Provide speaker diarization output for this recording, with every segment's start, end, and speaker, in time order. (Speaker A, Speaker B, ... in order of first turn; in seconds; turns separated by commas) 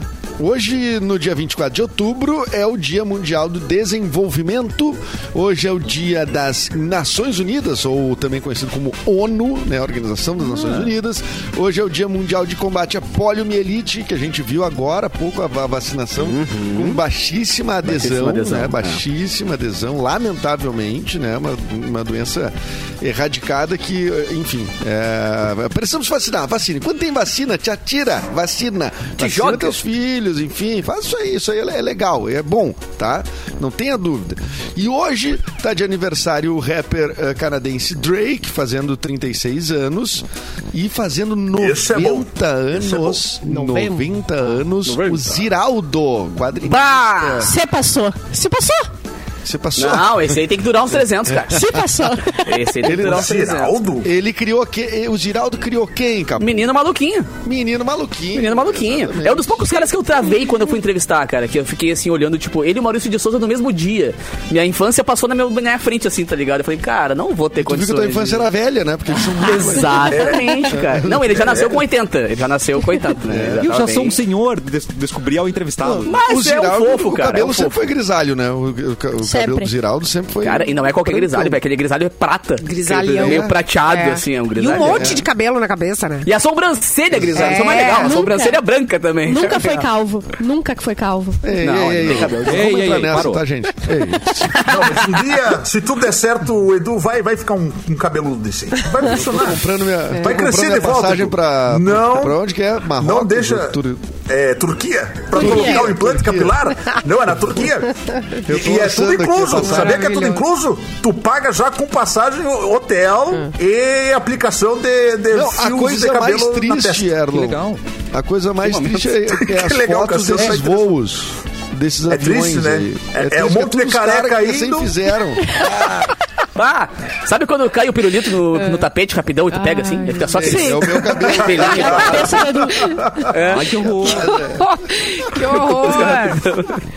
Speaker A: 0.4-47.5, Speaker B: 16.2-17.0, Speaker B: 17.9-19.0, Speaker B: 29.2-29.8, Speaker C: 41.5-43.2, Speaker D: 43.5-44.0, Speaker B: 44.9-45.4, Speaker B: 46.6-47.4, Speaker E: 47.4-48.9, Speaker A: 49.4-50.5, Speaker B: 49.8-51.6, Speaker A: 51.3-51.9, Speaker E: 51.5-52.5, Speaker B: 52.4-53.7, Speaker A: 52.8-56.7, Speaker C: 53.0-54.1, Speaker B: 56.4-57.3, Speaker A: 57.4-59.8, Speaker B: 58.3-68.5, Speaker A: 67.6-71.5, Speaker B: 69.3-74.2, Speaker C: 70.1-70.4, Speaker C: 71.3-71.8, Speaker A: 73.2-73.7, Speaker F: 73.6-76.2, Speaker A: 75.8-81.6, Speaker B: 76.0-77.8, Speaker E: 79.2-79.7, Speaker B: 80.4-85.2, Speaker D: 82.6-86.3, Speaker A: 83.0-83.5, Speaker A: 84.8-85.2, Speaker B: 86.2-89.8, Speaker A: 87.1-87.5, Speaker D: 87.3-88.4, Speaker E: 88.0-88.6, Speaker E: 89.2-91.4, Speaker A: 91.4-94.5, Speaker B: 91.6-92.7, Speaker F: 92.3-93.4, Speaker C: 94.6-99.6, Speaker A: 99.0-104.1, Speaker D: 100.1-100.4, Speaker C: 100.2-102.4, Speaker C: 103.0-107.9, Speaker A: 105.3-106.5, Speaker E: 105.4-105.8, Speaker D: 105.4-105.8, Speaker A: 108.4-110.1, Speaker C: 108.5-117.2, Speaker D: 109.6-110.4, Speaker A: 115.3-117.6, Speaker F: 117.3-117.8, Speaker A: 118.1-125.7, Speaker B: 118.6-119.2, Speaker C: 119.4-120.9, Speaker C: 122.1-124.9, Speaker B: 125.6-126.0, Speaker B: 126.5-132.5, Speaker D: 129.5-130.3, Speaker A: 130.3-132.3, Speaker E: 130.5-130.9, Speaker E: 131.6-133.0, Speaker C: 133.0-133.3, Speaker B: 133.2-133.8, Speaker F: 133.4-134.2, Speaker A: 133.8-134.8, Speaker D: 134.3-136.5, Speaker B: 135.6-136.7